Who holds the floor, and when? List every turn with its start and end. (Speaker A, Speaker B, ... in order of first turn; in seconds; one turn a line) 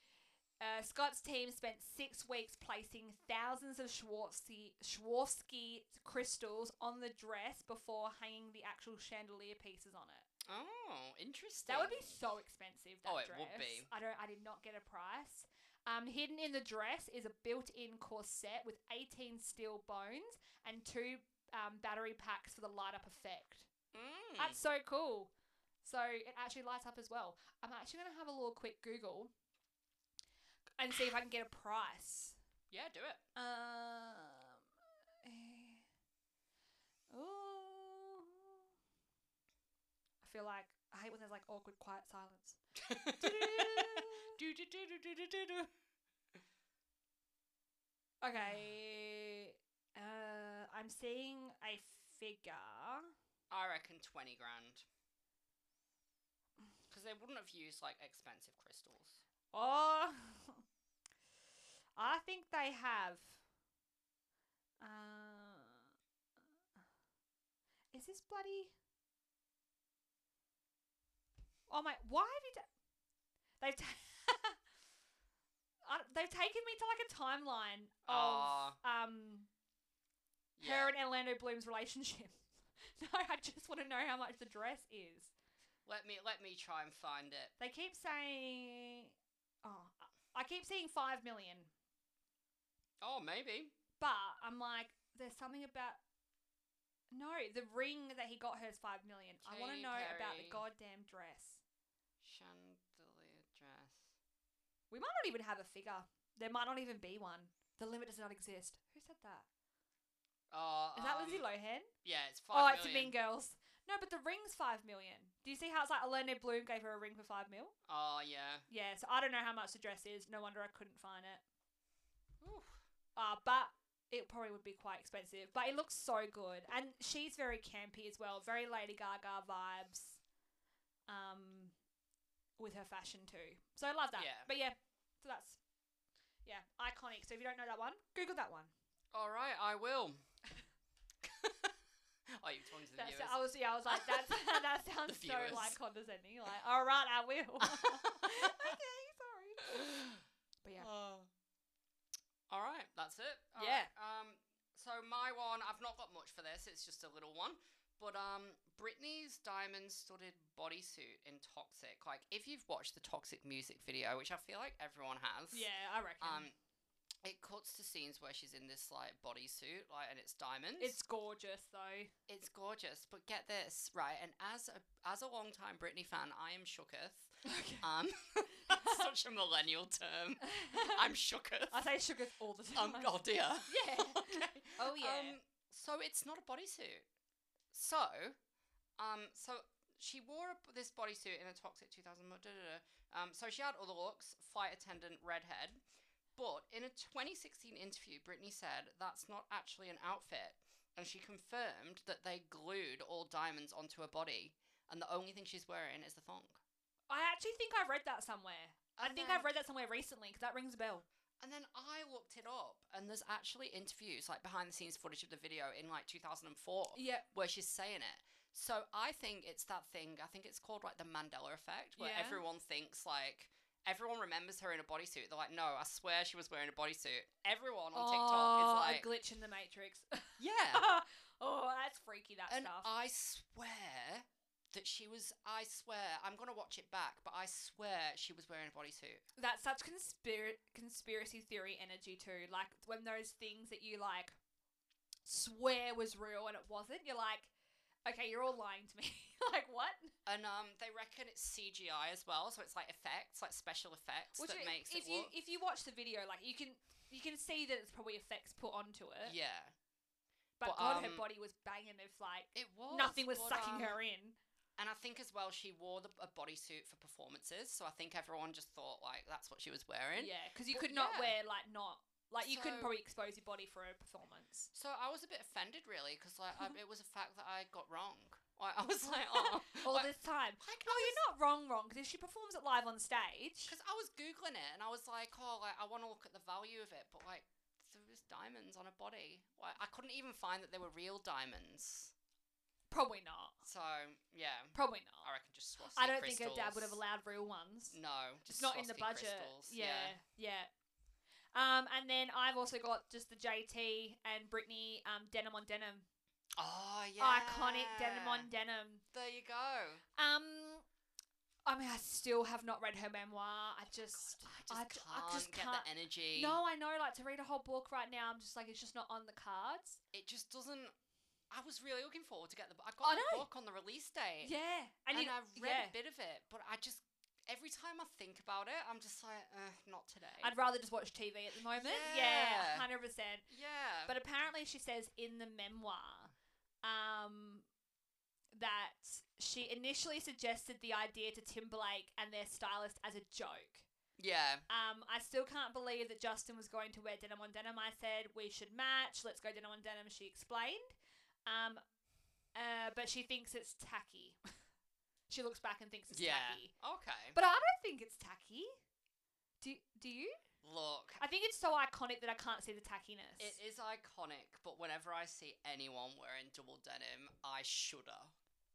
Speaker A: 0.6-10.3
Speaker B: 10.5-12.2
Speaker A: 11.7-23.7
Speaker B: 13.1-13.9
Speaker B: 23.9-24.6
Speaker A: 24.4-25.3
Speaker A: 25.8-29.3
Speaker A: 30.8-32.4
Speaker B: 32.7-33.2
Speaker A: 33.4-34.7
Speaker A: 35.2-35.9
Speaker A: 37.1-38.6
Speaker A: 40.2-42.6
Speaker B: 42.8-45.7
Speaker A: 43.2-44.4
Speaker A: 48.2-53.1
Speaker B: 53.5-54.9
Speaker B: 56.9-59.2
Speaker A: 59.5-60.6
Speaker A: 62.0-63.4
Speaker A: 64.8-65.9
Speaker A: 67.9-68.7
Speaker A: 71.7-72.7
Speaker A: 73.6-74.6
Speaker A: 75.8-79.5
Speaker B: 78.1-78.8
Speaker B: 80.6-80.9
Speaker A: 80.6-85.3
Speaker B: 85.9-87.5
Speaker A: 87.6-89.1
Speaker A: 89.6-91.7
Speaker B: 93.0-93.7
Speaker A: 94.0-96.0
Speaker A: 97.1-101.6
Speaker B: 99.4-100.6
Speaker B: 102.2-104.1
Speaker A: 104.9-109.5
Speaker B: 110.5-111.5
Speaker A: 111.0-111.9
Speaker B: 112.0-113.2
Speaker A: 112.5-117.7
Speaker B: 117.9-118.7
Speaker A: 118.7-121.4
Speaker B: 122.4-122.8
Speaker A: 123.2-130.2
Speaker A: 131.1-131.7
Speaker A: 132.6-135.6
Speaker B: 134.2-134.5
Speaker A: 136.4-138.7
Speaker B: 139.1-140.2
Speaker B: 141.2-141.8
Speaker B: 142.3-143.4
Speaker A: 142.9-149.7
Speaker B: 143.9-144.4
Speaker B: 145.1-145.8
Speaker B: 147.6-148.8
Speaker B: 149.6-150.2
Speaker A: 150.6-150.9
Speaker B: 150.8-151.3
Speaker B: 152.5-165.7
Speaker A: 153.6-153.9
Speaker A: 165.5-166.5
Speaker B: 166.2-166.5
Speaker B: 167.2-171.0
Speaker A: 170.8-172.1
Speaker B: 172.3-181.8
Speaker A: 177.4-177.9
Speaker A: 178.7-179.0
Speaker A: 180.4-181.0
Speaker A: 181.7-185.4
Speaker B: 182.8-187.1
Speaker B: 187.7-188.4
Speaker B: 189.0-195.8
Speaker B: 196.4-206.6
Speaker A: 207.1-211.1
Speaker B: 209.0-209.5
Speaker B: 211.4-229.1
Speaker A: 216.9-217.2
Speaker A: 222.0-222.4
Speaker A: 227.9-232.9
Speaker B: 230.4-230.8
Speaker B: 232.5-239.2
Speaker A: 239.4-244.3
Speaker A: 245.2-247.5
Speaker A: 248.1-250.1
Speaker B: 250.3-255.3
Speaker A: 254.4-259.4
Speaker B: 259.2-259.7
Speaker A: 260.6-264.4
Speaker B: 260.6-261.2
Speaker B: 262.6-264.0
Speaker B: 264.8-271.4
Speaker A: 270.2-274.7
Speaker B: 272.4-272.9
Speaker B: 274.7-281.2
Speaker A: 279.3-283.7
Speaker B: 283.7-292.1
Speaker A: 292.9-293.6
Speaker B: 293.6-297.0
Speaker A: 294.7-295.3
Speaker A: 295.9-297.9
Speaker B: 297.9-300.1
Speaker A: 298.5-300.7
Speaker A: 301.5-306.1
Speaker B: 306.6-308.5
Speaker A: 307.2-309.0
Speaker B: 309.1-310.0
Speaker A: 310.2-310.8
Speaker A: 311.7-320.0
Speaker B: 314.1-316.6
Speaker B: 320.1-320.9
Speaker B: 321.5-324.5
Speaker A: 323.0-323.5
Speaker A: 324.4-325.9
Speaker B: 325.1-330.5
Speaker A: 330.4-333.4
Speaker B: 331.7-332.9
Speaker B: 333.5-334.2
Speaker A: 334.1-336.3
Speaker A: 336.8-337.7
Speaker A: 338.5-343.9
Speaker B: 344.2-344.7
Speaker A: 344.7-350.9
Speaker A: 351.5-351.8
Speaker A: 352.6-354.4
Speaker A: 355.3-356.7
Speaker B: 356.1-357.4
Speaker A: 357.3-358.7
Speaker A: 359.6-360.4
Speaker B: 360.6-361.2
Speaker A: 361.2-363.6
Speaker B: 363.4-368.4